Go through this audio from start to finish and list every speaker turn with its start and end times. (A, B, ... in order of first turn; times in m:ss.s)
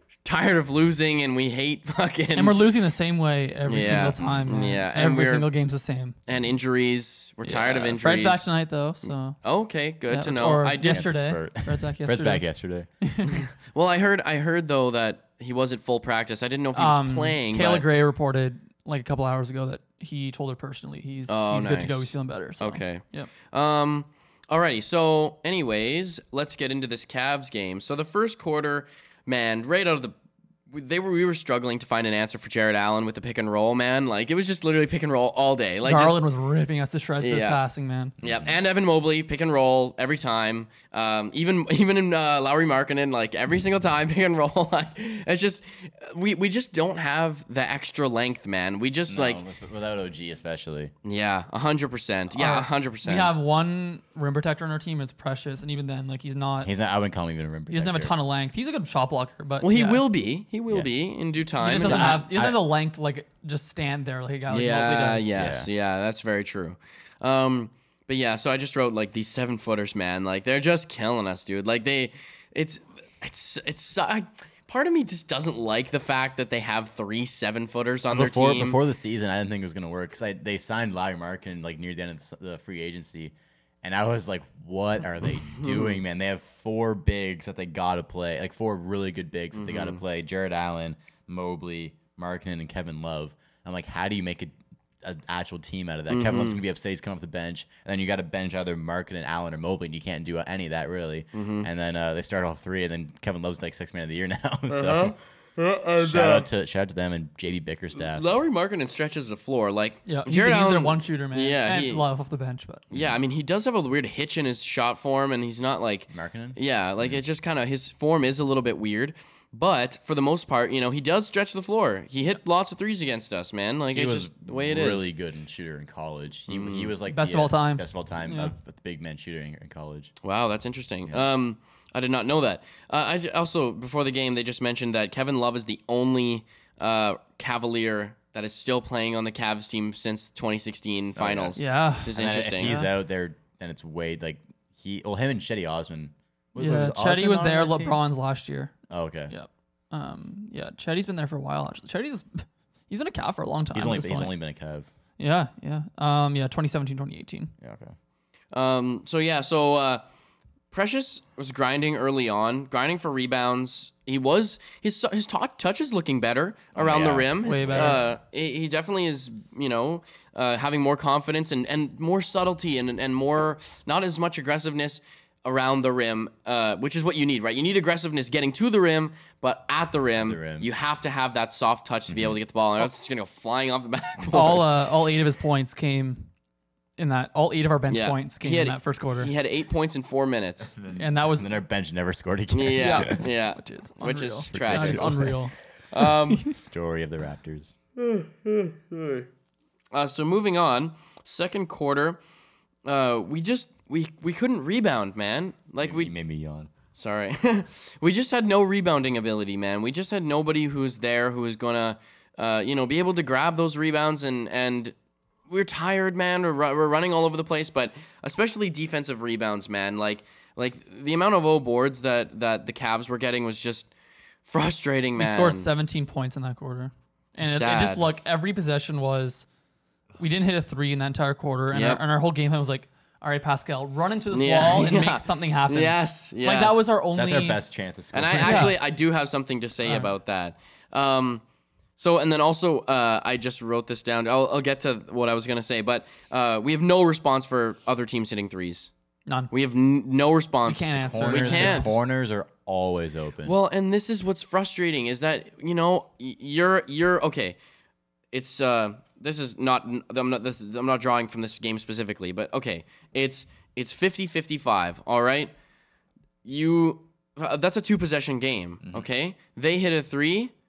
0:00.2-0:02.6 A
0:02.4-0:06.1 B
0:03.7-0:05.5 A
0:04.2-0:04.5 C
0:06.3-0:08.5 A
0:07.4-0:09.4 B
0:09.4-0:11.1 A
0:10.1-0:12.4 B
0:10.8-0:12.9 C
0:13.0-0:13.4 B
0:13.3-0:17.8 A
0:16.7-0:23.3 B
0:21.3-0:30.1 A
0:30.7-0:36.2 A
0:35.8-0:38.1 B
0:37.2-0:37.6 A
0:38.2-0:38.5 C
0:38.2-0:49.4 A
0:49.1-0:50.9 C
0:51.0-0:53.3 A
0:52.3-0:56.7 B
0:56.6-0:58.1 C
0:57.7-1:00.0 B
0:59.6-1:02.2 A
1:01.6-1:05.5 B
1:01.7-1:02.7 C
1:04.5-1:18.8 A
1:05.3-1:05.7 C
1:18.1-1:45.2 C
1:25.6-1:26.0 A
1:29.5-1:30.0 A
1:36.1-1:36.6 A
1:41.3-1:41.7 A
1:44.7-1:46.5 A
1:46.0-1:48.3 C
1:48.0-1:52.1 A
1:50.0-1:52.8 B
1:52.9-2:05.1 A
1:56.1-1:57.2 C
2:03.9-2:10.1 C
2:06.5-2:06.9 A
2:07.1-2:08.5 B
2:10.2-2:22.7 A
2:21.2-2:21.6 C
2:21.6-2:22.9 B
2:22.1-2:28.0 C
2:26.6-2:28.7 B
2:28.9-2:29.3 C
2:29.3-2:34.3 B
2:33.7-2:34.9 C
2:35.2-2:37.5 B
2:37.6-2:37.9 C
2:38.5-2:40.0 A
2:40.7-3:04.8 A
2:46.7-2:48.1 C
2:47.4-2:48.0 B
3:00.2-3:00.7 C
3:02.1-3:02.4 C
3:04.3-3:06.3 B
3:07.0-3:09.3 B
3:07.9-3:10.7 A
3:10.7-3:13.2 C
3:10.9-3:11.5 B
3:12.5-3:15.3 A
3:12.8-3:15.5 B
3:14.5-3:15.5 C
3:15.9-3:16.5 A
3:16.4-3:17.8 C
3:18.0-3:19.3 A
3:19.9-3:22.2 A
3:22.8-3:26.1 A
3:25.8-3:26.7 C
3:26.9-3:34.9 A
3:35.5-3:43.9 A
3:44.5-3:45.7 A
3:45.2-3:49.4 B
3:47.4-3:48.1 A
3:50.2-3:57.6 B
3:51.7-3:52.0 A
3:54.3-3:56.9 A
3:57.1-3:58.8 C
3:58.1-4:01.4 A
3:58.4-3:58.8 B
3:59.8-4:00.1 B
4:02.0-4:08.9 A
4:09.3-4:09.5 B
4:09.5-4:11.9 A
4:10.7-4:11.9 B
4:11.0-4:13.5 C
4:13.4-4:17.6 A
4:18.3-4:25.5 A
4:26.4-4:30.5 A